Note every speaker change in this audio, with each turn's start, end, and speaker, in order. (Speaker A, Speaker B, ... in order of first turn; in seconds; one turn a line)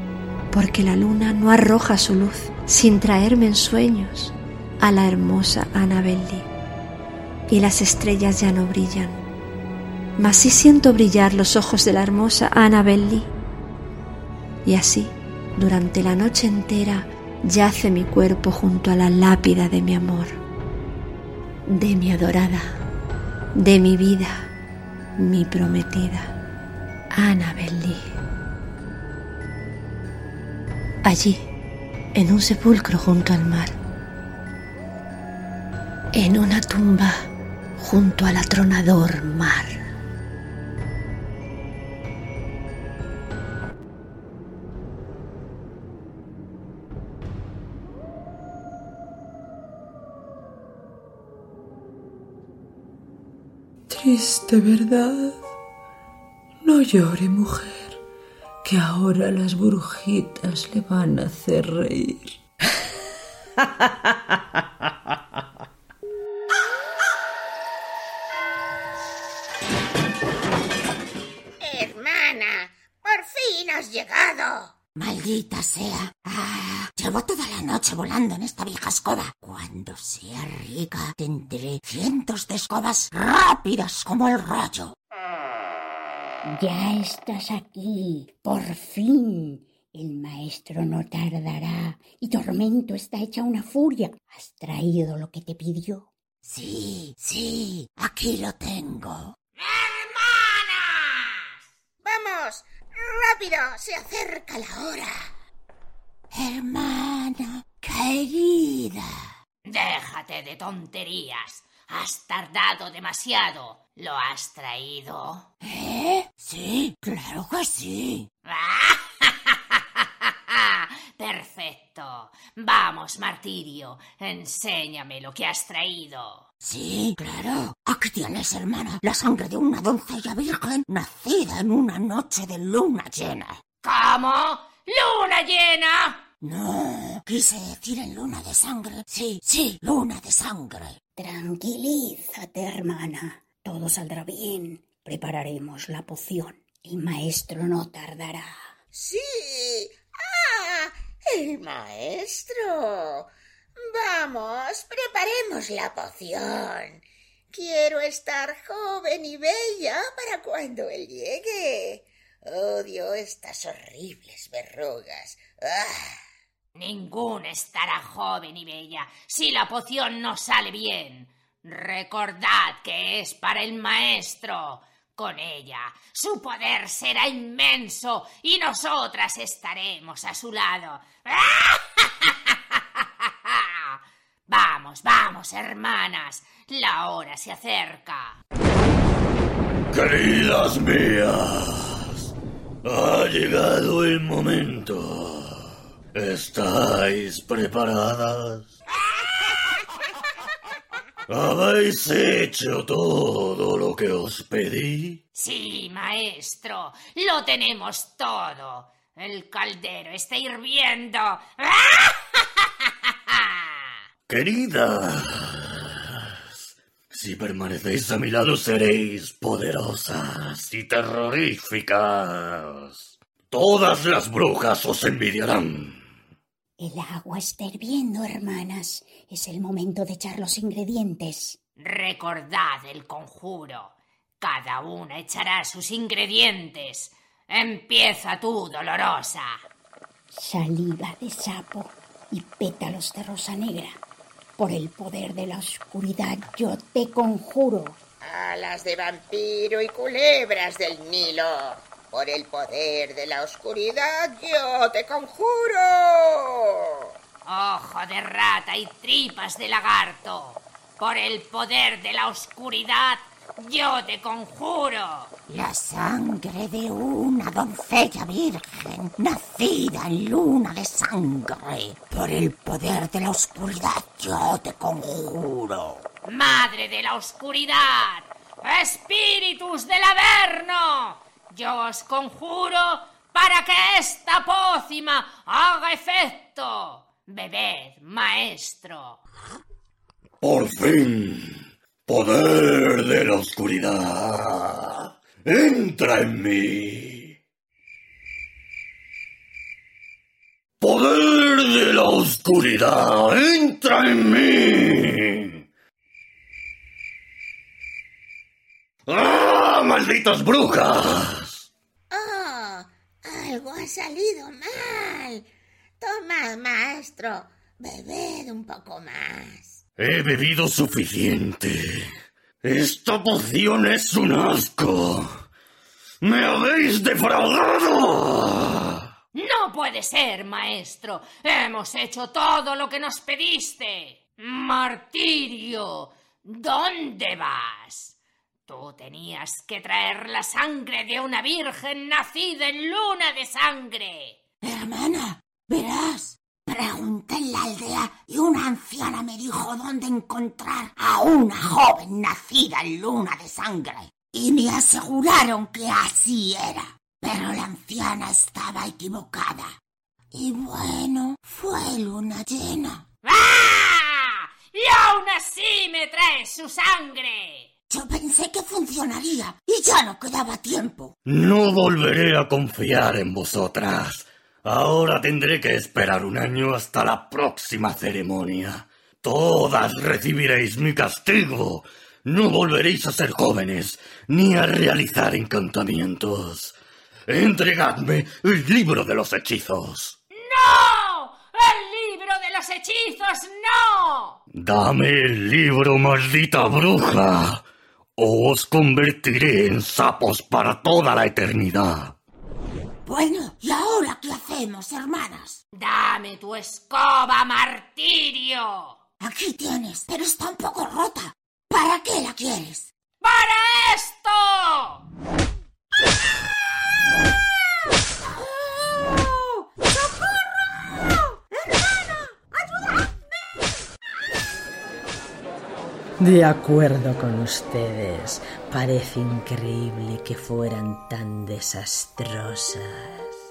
Speaker A: 0.5-6.5
Speaker A: 7.5-9.2
Speaker A: 10.2-13.3
Speaker A: 14.6-20.4
Speaker A: 21.7-22.8
Speaker A: 23.6-24.5
Speaker A: 25.2-26.4
Speaker A: 27.1-28.0
Speaker A: 31.0-31.4
Speaker A: 32.1-33.7
Speaker A: 36.1-39.8
Speaker B: 53.9-55.4
Speaker B: 56.6-58.0
Speaker B: 58.6-62.4
Speaker C: 71.6-74.7
Speaker D: 75.0-84.9
Speaker E: 86.4-96.1
Speaker D: 96.4-99.3
Speaker F: 99.6-101.4
Speaker C: 102.0-105.3
Speaker D: 106.3-109.0
Speaker F: 109.7-115.5
Speaker D: 115.6-118.3
Speaker F: 118.5-126.5
Speaker D: 126.6-133.6
Speaker F: 133.8-136.2
Speaker D: 136.4-141.0
Speaker E: 141.2-148.7
Speaker C: 148.9-166.2
Speaker F: 166.7-188.4
Speaker G: 189.9-192.3
Speaker G: 192.8-198.8
Speaker G: 201.3-205.2
Speaker F: 205.3-212.6
Speaker F: 213.3-213.8
Speaker G: 214.3-216.2
Speaker G: 217.1-226.0
Speaker E: 226.8-231.6
Speaker F: 231.8-239.6
Speaker E: 240.3-244.0
Speaker E: 244.6-248.0
Speaker C: 248.2-256.6
Speaker F: 257.4-265.3
Speaker D: 265.5-276.0
Speaker F: 276.2-289.2
Speaker G: 290.4-297.4
Speaker G: 300.8-305.5
Speaker G: 309.1-311.7
Speaker C: 312.1-315.5
Speaker C: 316.0-319.8
Speaker G: 320.0-322.1
Speaker G: 322.6-325.4
Speaker G: 326.2-329.0
Speaker F: 329.3-338.1
Speaker F: 338.7-344.4
Speaker D: 344.6-359.8
Speaker D: 360.3-363.1
Speaker F: 363.2-367.7
Speaker D: 367.9-371.1
Speaker G: 371.2-386.8
Speaker G: 387.3-390.2
Speaker F: 390.3-394.4
Speaker G: 394.6-397.6
Speaker G: 398.2-402.1
Speaker D: 403.0-405.6
Speaker F: 405.8-409.0
Speaker D: 409.2-412.9
Speaker F: 413.2-415.0
Speaker B: 426.2-433.3